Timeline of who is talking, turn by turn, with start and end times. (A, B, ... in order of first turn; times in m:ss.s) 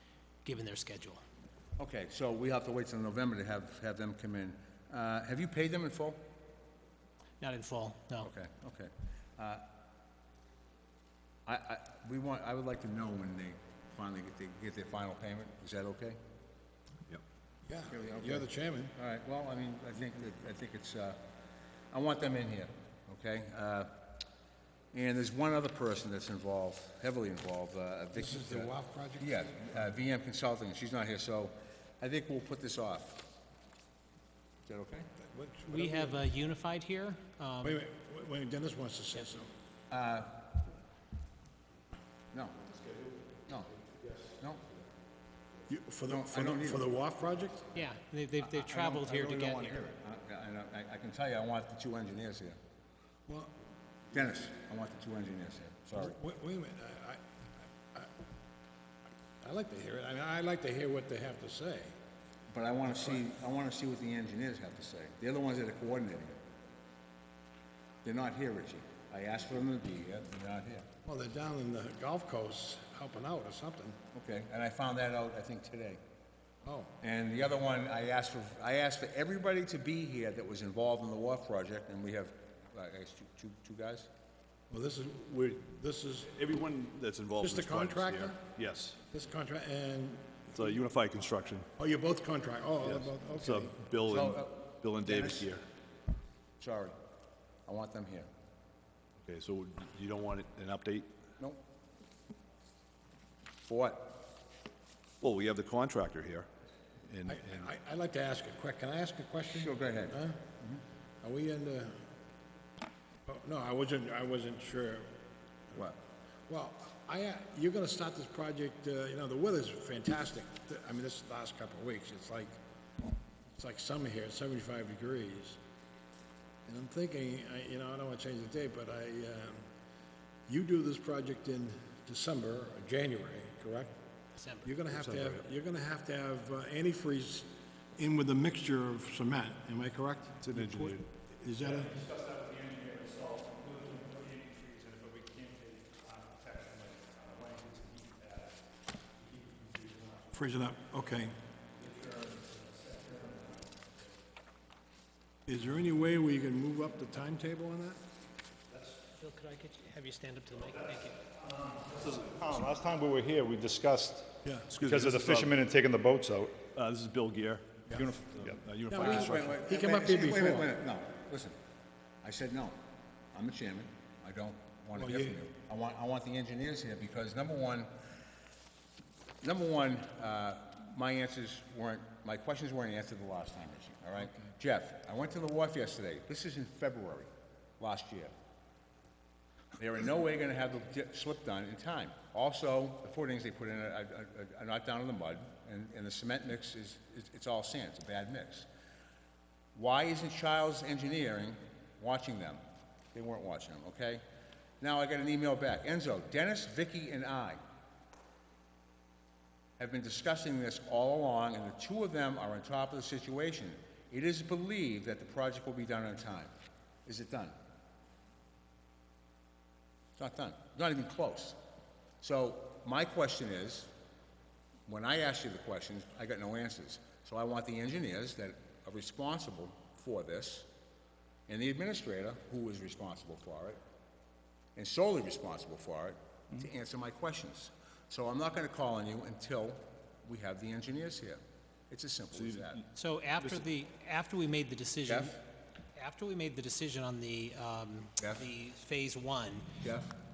0:00.4-0:01.2 A
0:01.8-0:06.2 B
0:07.4-0:08.3 A
0:08.2-0:09.6 B
0:11.5-0:16.2 B
0:17.7-0:18.9 C
0:17.9-0:21.2 B
0:21.9-0:23.9 B
0:24.9-0:33.2 B
0:28.1-0:29.8 C
0:34.7-0:35.1 B
0:35.2-0:36.2 C
0:35.7-0:37.8 A
0:37.6-0:39.5 C
0:39.9-0:40.4 B
0:42.3-0:42.6 B
0:43.9-0:44.3 D
0:45.7-0:47.7 C
0:46.1-0:46.9 B
0:47.8-0:49.8 A
0:48.4-0:52.6 B
0:53.3-0:53.5 C
0:54.1-0:56.2 B
0:56.0-0:57.2 C
0:59.4-1:02.0 C
1:02.5-1:06.4 B
1:08.0-1:10.9 B
1:11.0-1:14.0 C
1:14.1-1:16.0 B
1:16.6-1:16.9 C
1:17.0-1:24.1 B
1:24.7-1:26.3 C
1:26.3-1:29.0 D
1:27.4-1:28.5 C
1:29.1-1:30.6 C
1:30.5-1:31.7 D
1:31.8-1:33.8 C
1:32.8-1:35.6 D
1:34.1-1:35.5 B
1:36.6-1:37.0 B
1:37.7-1:38.3 B
1:39.2-1:41.1 D
1:43.7-1:44.2 B
1:45.2-1:46.5 D
1:47.1-1:47.7 D
1:47.3-1:50.4 C
1:49.5-1:50.8 B
1:51.2-1:52.0 C
1:53.3-1:55.1 C
1:56.5-2:02.5 C
2:03.5-2:05.6 C
2:06.7-2:09.6 C
2:10.5-2:13.9 C
2:14.4-2:14.8 A
2:14.6-2:21.9 C
2:14.9-2:15.4 D
2:20.4-2:21.1 D
2:21.6-2:28.6 E
2:29.2-2:30.4 E
2:30.3-2:31.4 C
2:31.8-2:34.0 E
2:35.5-2:38.0 C
2:39.2-2:41.2 A
2:41.4-2:46.6 E
2:44.4-2:44.7 C
2:44.7-2:45.6 D
2:46.6-2:49.5 D
2:48.1-2:48.5 E
2:48.9-2:50.7 C
2:49.0-2:51.6 B
2:52.2-2:52.8 B
2:53.3-2:57.9 B
2:55.0-2:55.4 C
2:59.4-3:08.3 B
3:09.8-3:18.7 B
3:19.8-3:22.6 B
3:23.1-3:24.2 B
3:24.8-3:27.6 B
3:29.8-3:36.5 B
3:37.1-3:37.6 B
3:40.2-3:41.6 B
3:42.2-3:43.9 B
3:44.9-3:50.7 B
3:51.5-3:53.8 B
3:54.8-4:02.8 B
4:02.3-4:02.8 D
4:03.0-4:05.4 A
4:05.1-4:05.3 B
4:06.0-4:09.7 A
4:08.2-4:08.4 B
4:09.8-4:10.1 B